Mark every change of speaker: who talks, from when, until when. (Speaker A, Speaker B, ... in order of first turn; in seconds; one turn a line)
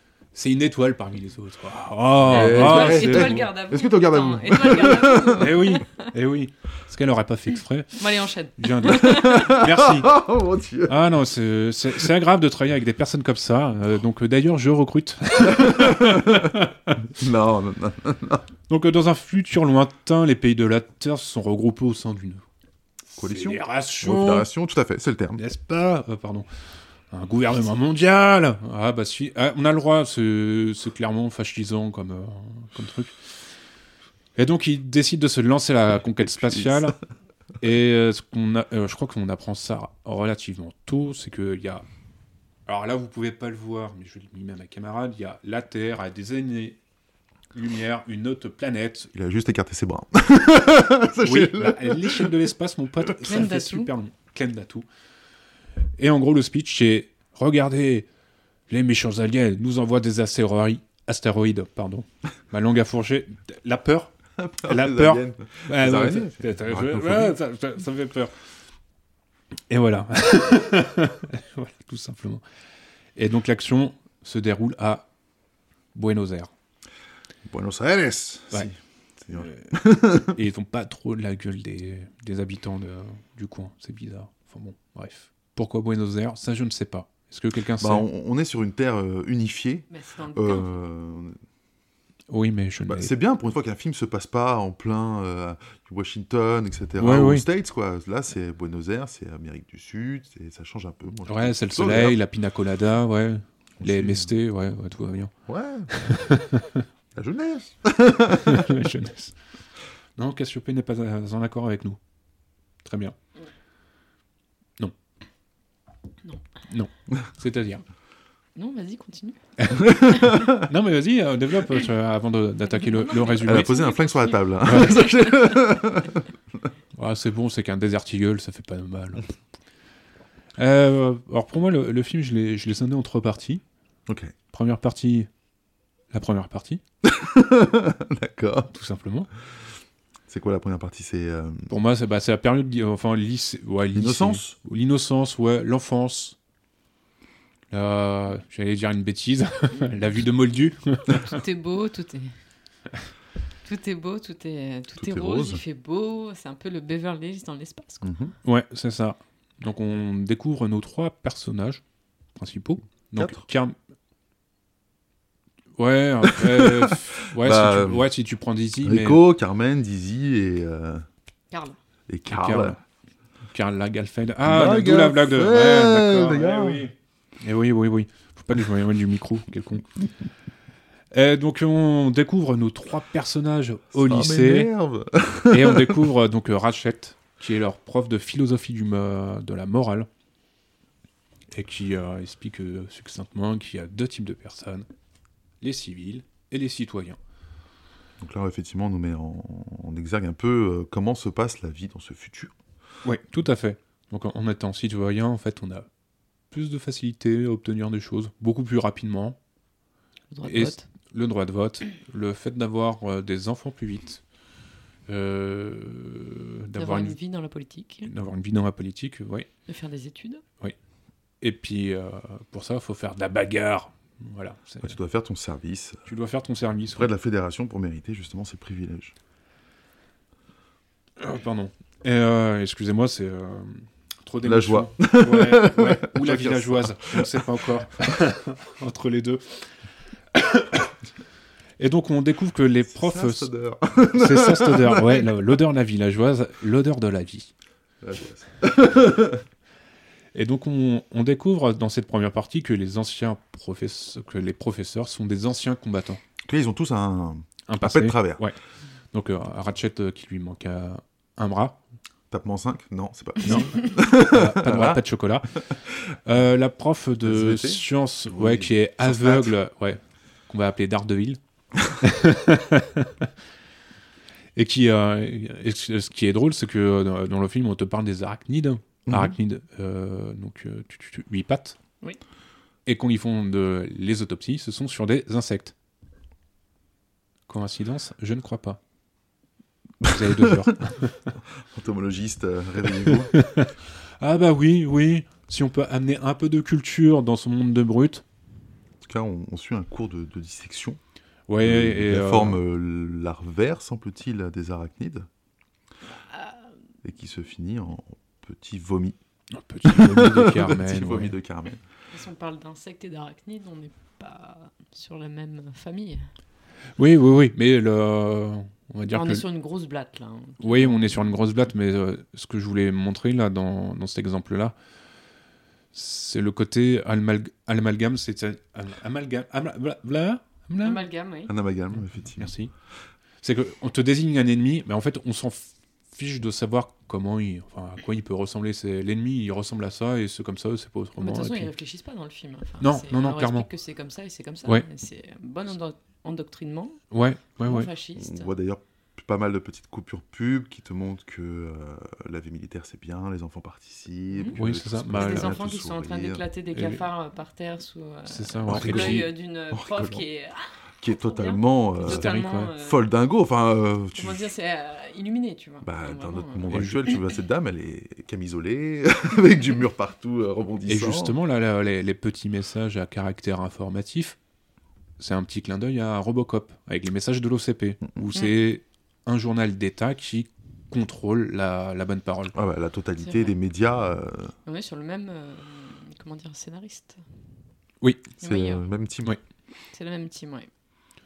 Speaker A: 0.3-3.5
Speaker B: 2.2-5.6
Speaker C: 2.3-6.1
Speaker A: 5.4-8.0
Speaker C: 8.0-9.6
Speaker A: 8.6-10.2
Speaker B: 8.9-11.0
Speaker A: 10.9-17.0
Speaker B: 15.4-18.5
Speaker A: 18.7-22.4
Speaker A: 23.1-24.5
Speaker B: 23.2-25.4
Speaker A: 25.4-26.5
Speaker A: 27.1-33.2
Speaker A: 34.4-37.0
Speaker B: 36.2-36.9
Speaker A: 37.6-41.9
Speaker A: 42.7-46.8
Speaker A: 47.5-49.1
Speaker B: 49.1-52.4
Speaker A: 51.2-54.9
Speaker C: 53.2-53.9
Speaker A: 56.0-58.1
Speaker A: 58.7-64.1
Speaker B: 64.4-67.4
Speaker A: 64.6-68.3
Speaker A: 69.7-72.4
Speaker A: 73.2-75.1
Speaker A: 75.9-76.5
Speaker B: 77.5-80.4
Speaker A: 79.3-88.1
Speaker B: 87.8-91.4
Speaker C: 89.9-90.7
Speaker A: 92.3-93.1
Speaker B: 92.9-102.2
Speaker A: 97.0-97.5
Speaker A: 101.3-105.3
Speaker B: 103.8-104.3
Speaker B: 105.5-106.2
Speaker A: 105.9-106.8
Speaker B: 107.1-108.7
Speaker A: 108.4-109.4
Speaker A: 110.2-112.0
Speaker A: 112.8-113.2
Speaker A: 116.7-117.8
Speaker C: 118.6-119.4
Speaker A: 119.6-123.8
Speaker B: 119.8-120.7
Speaker C: 122.8-125.7
Speaker B: 123.4-126.2
Speaker A: 124.7-125.0
Speaker A: 127.0-129.3
Speaker A: 130.6-133.6
Speaker B: 134.1-134.3
Speaker A: 134.5-135.3
Speaker A: 136.1-136.8
Speaker B: 137.0-138.7
Speaker A: 138.7-139.3
Speaker B: 140.3-141.7
Speaker A: 141.7-146.4
Speaker B: 143.9-144.6
Speaker A: 147.7-151.4
Speaker C: 151.2-152.3
Speaker C: 153.7-158.1
Speaker B: 155.0-155.6
Speaker B: 158.0-158.3
Speaker A: 158.4-161.8
Speaker A: 162.4-163.8
Speaker B: 163.2-163.4
Speaker A: 165.8-169.2
Speaker B: 166.4-168.1
Speaker B: 168.8-171.1
Speaker C: 171.5-171.8
Speaker B: 172.1-172.8
Speaker A: 172.3-172.8
Speaker A: 173.5-179.9
Speaker B: 174.4-176.8
Speaker A: 181.1-184.7
Speaker B: 183.9-186.0
Speaker A: 185.5-190.1
Speaker A: 191.5-194.9
Speaker A: 195.6-197.2
Speaker B: 198.2-202.5
Speaker A: 203.0-205.9
Speaker A: 206.5-209.4
Speaker C: 210.3-210.8
Speaker A: 210.4-214.2
Speaker A: 215.1-217.2
Speaker C: 216.8-218.1
Speaker A: 218.1-219.5
Speaker C: 219.7-220.4
Speaker A: 221.4-225.0
Speaker B: 224.8-226.1
Speaker A: 226.1-227.1
Speaker B: 226.9-229.1
Speaker A: 231.2-239.7
Speaker B: 234.4-237.5
Speaker A: 240.3-240.9
Speaker A: 241.8-243.5
Speaker B: 242.9-245.3
Speaker A: 244.1-247.5
Speaker B: 248.0-249.4
Speaker A: 250.3-256.2
Speaker B: 256.5-258.4
Speaker A: 257.7-258.6
Speaker A: 259.1-261.8
Speaker B: 262.3-265.0
Speaker A: 263.4-271.4
Speaker B: 265.6-265.9
Speaker B: 267.2-269.6
Speaker A: 272.0-273.3
Speaker A: 274.6-281.8
Speaker B: 279.1-279.4
Speaker A: 282.9-285.7
Speaker A: 287.5-288.8
Speaker B: 290.0-290.7
Speaker A: 290.1-291.2
Speaker B: 291.6-293.3
Speaker A: 293.1-298.2
Speaker B: 299.1-301.0
Speaker A: 301.5-302.6
Speaker B: 301.6-305.3
Speaker C: 306.1-306.7
Speaker B: 307.0-309.2
Speaker A: 309.5-311.4
Speaker B: 309.9-311.8
Speaker C: 312.1-316.3
Speaker A: 317.0-319.4
Speaker C: 319.1-321.2
Speaker A: 320.6-324.8
Speaker A: 325.9-331.0
Speaker C: 330.8-331.5
Speaker B: 331.5-332.5
Speaker A: 332.4-332.7
Speaker A: 333.4-341.7
Speaker C: 341.2-347.0
Speaker A: 342.8-343.7
Speaker A: 347.1-347.9
Speaker C: 347.6-348.5
Speaker B: 348.1-356.4
Speaker C: 354.3-354.6
Speaker A: 354.6-355.6
Speaker C: 355.1-363.0
Speaker A: 356.8-357.0
Speaker A: 358.3-359.3
Speaker B: 358.7-360.2
Speaker B: 361.0-364.5
Speaker A: 362.0-362.7
Speaker C: 364.2-366.7
Speaker B: 365.8-371.4
Speaker A: 366.7-367.0
Speaker A: 370.9-374.4
Speaker A: 375.2-382.6
Speaker B: 382.5-384.5
Speaker C: 383.2-383.5
Speaker C: 384.7-387.2
Speaker A: 388.0-388.3
Speaker C: 388.4-388.9
Speaker B: 388.4-389.4
Speaker C: 389.9-390.7